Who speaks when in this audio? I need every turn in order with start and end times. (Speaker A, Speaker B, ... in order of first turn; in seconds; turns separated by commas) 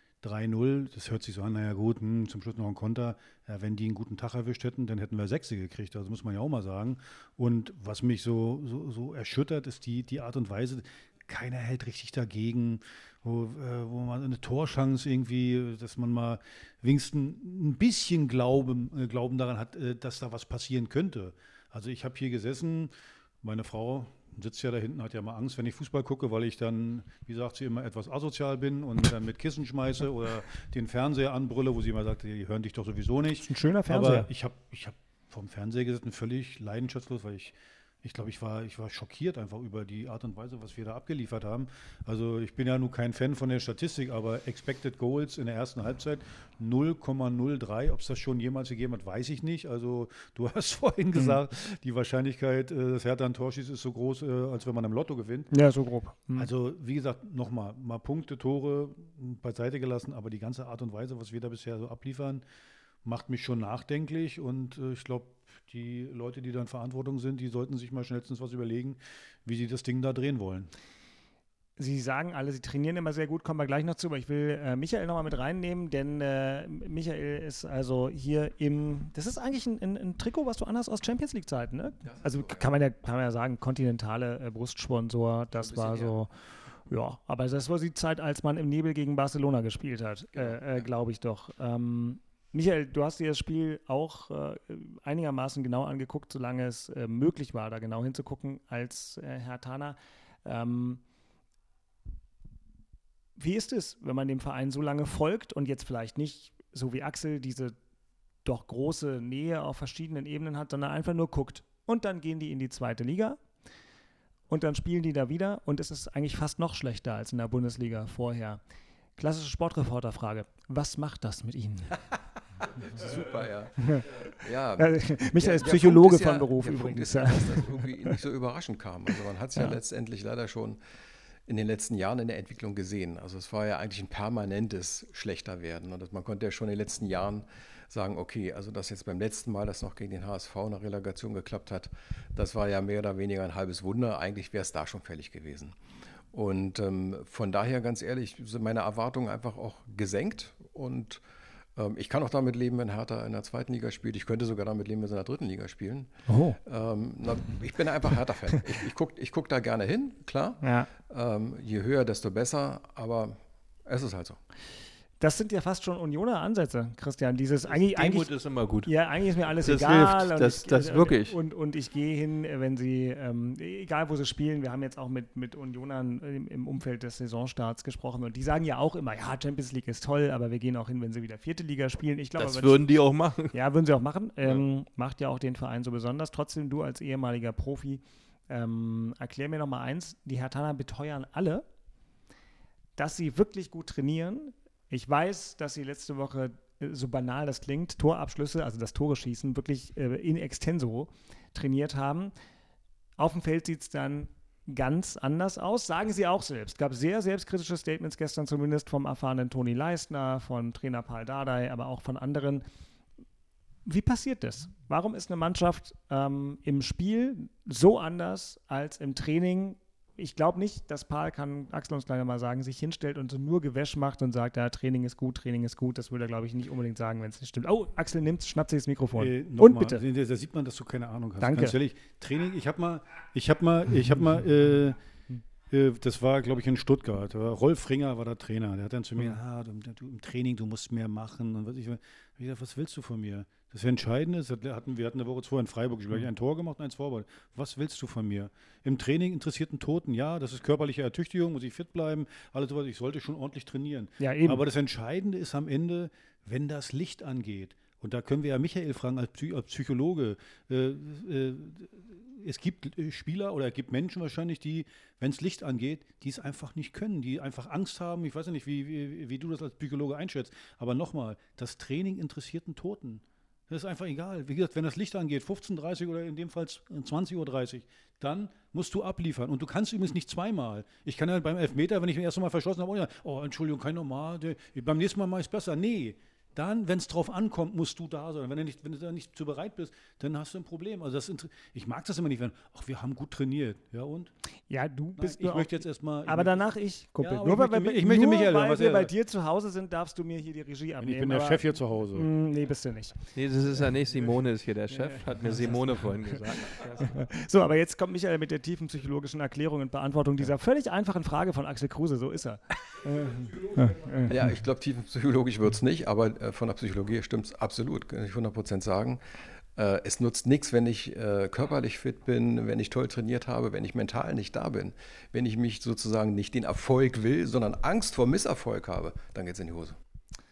Speaker A: 0.2-55.5, Speaker B: 33.4-34.3, Speaker B: 55.5-56.5, Speaker A: 56.4-62.4, Speaker A: 63.0-70.7, Speaker B: 71.8-86.3, Speaker C: 82.0-82.7, Speaker C: 85.6-86.1, Speaker B: 86.9-101.0, Speaker B: 103.4-107.8, Speaker B: 108.5-113.4, Speaker B: 114.5-118.6, Speaker B: 119.2-122.0, Speaker C: 122.6-130.8, Speaker B: 123.8-124.1, Speaker B: 124.8-128.2, Speaker C: 131.5-145.8, Speaker C: 146.3-151.2, Speaker C: 151.8-164.4, Speaker B: 156.3-156.6, Speaker B: 160.6-160.9, Speaker B: 165.2-168.3, Speaker D: 167.7-168.9, Speaker B: 168.8-182.8, Speaker D: 169.6-171.4, Speaker D: 182.4-183.5, Speaker B: 183.5-191.7, Speaker B: 193.0-202.3, Speaker B: 203.2-212.7, Speaker B: 213.9-230.0, Speaker A: 229.2-235.0, Speaker B: 231.4-231.8, Speaker A: 235.7-294.3, Speaker B: 254.2-254.6, Speaker B: 294.7-301.6, Speaker A: 295.2-296.7, Speaker A: 297.2-299.1, Speaker A: 301.0-302.3, Speaker B: 302.1-303.2, Speaker D: 303.4-307.1, Speaker B: 304.9-305.2, Speaker B: 307.0-314.3, Speaker C: 314.3-319.2, Speaker C: 319.8-330.0